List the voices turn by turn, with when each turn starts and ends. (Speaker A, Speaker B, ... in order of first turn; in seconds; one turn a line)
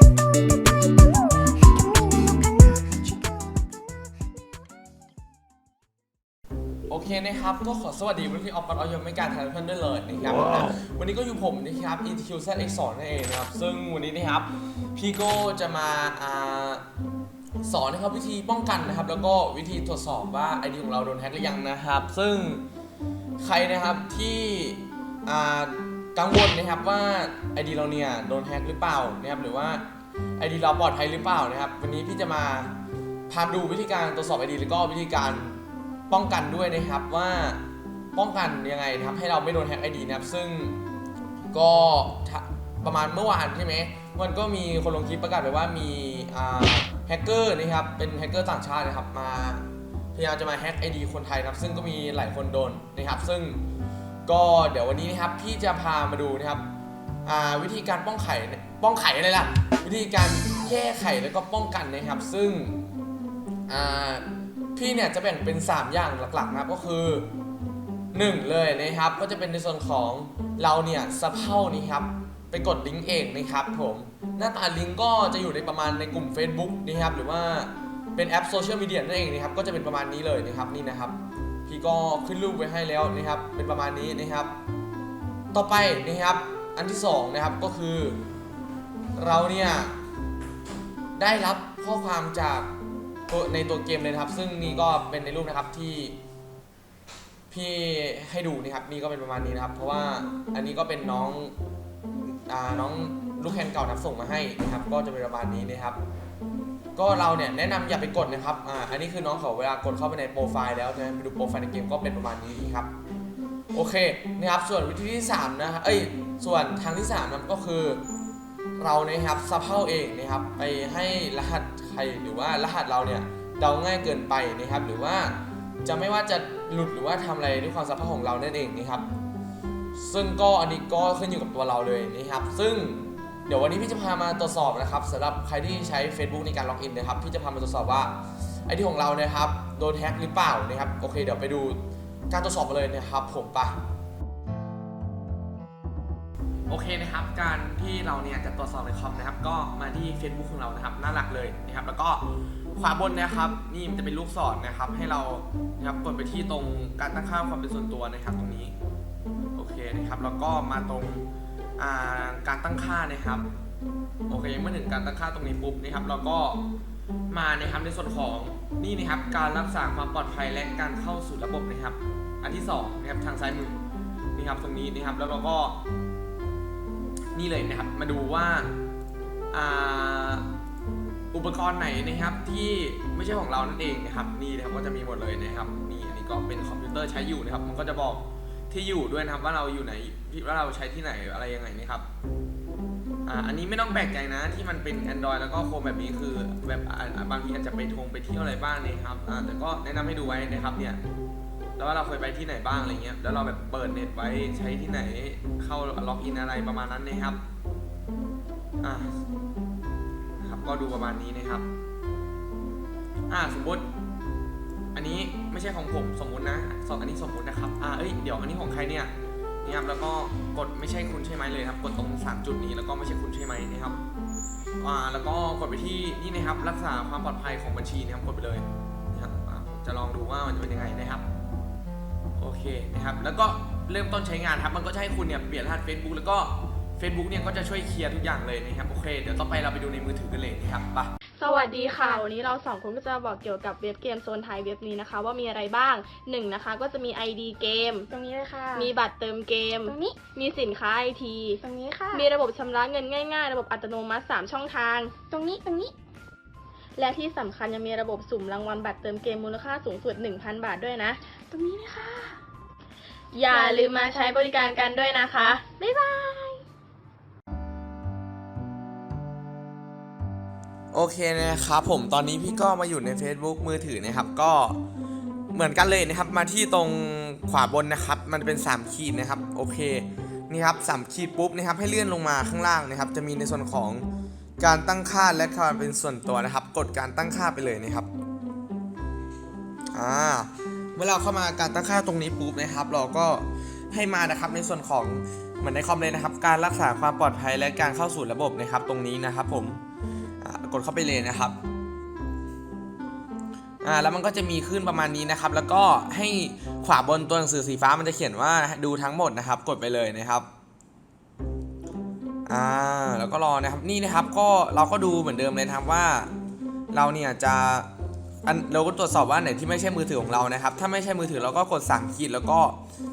Speaker A: 6.9-16.8
Speaker A: 17.6-22.6
Speaker A: 23.4-29.8
Speaker A: 30.4-32.8
Speaker A: 33.3-37.6
Speaker A: 38.1-40.8
Speaker A: 41.5-53.6
Speaker A: 54.2-56.7
Speaker A: 57.2-62.8
Speaker A: 63.7-67.3
Speaker A: 68.1-84.5
Speaker A: 85.5-88.2
Speaker A: 89.1-90.0
Speaker A: 91.2-92.7
Speaker A: 93.3-96.2
Speaker A: 97.5-101.5
Speaker A: 102.3-106.0
Speaker A: 106.9-112.9
Speaker A: 113.7-118.0
Speaker A: 118.8-129.1
Speaker A: 129.9-143.8
Speaker A: 146.7-158.7
Speaker A: 159.5-161.2
Speaker A: 161.8-163.5
Speaker A: 164.3-166.6
Speaker A: 167.3-173.8
Speaker A: 174.3-175.8
Speaker A: 177.3-178.7
Speaker A: 179.5-180.5
Speaker A: 181.3-192.1
Speaker A: 193.2-201.0
Speaker A: 201.8-207.4
Speaker A: 208.8-209.2
Speaker A: 210.4-211.7
Speaker A: 213.3-213.9
Speaker A: 214.9-224.0
Speaker A: 224.8-231.2
Speaker A: 232.4-241.1
Speaker B: 241.4-248.1
Speaker C: 241.4-242.2
Speaker C: 248.1-248.9
Speaker B: 248.7-251.6
Speaker C: 249.8-250.2
Speaker C: 251.6-252.3
Speaker B: 252.1-255.2
Speaker C: 255.3-255.9
Speaker B: 256.9-261.2
Speaker C: 261.5-262.4
Speaker B: 263.3-265.6
Speaker C: 263.5-264.1
Speaker C: 265.7-266.6
Speaker A: 270.9-274.8
Speaker A: 275.5-284.1
Speaker A: 284.6-288.1
Speaker A: 289.9-299.8
Speaker A: 300.4-301.6
Speaker A: 303.8-310.5
Speaker A: 312.4-316.3
Speaker A: 316.9-317.9
Speaker A: 318.4-322.8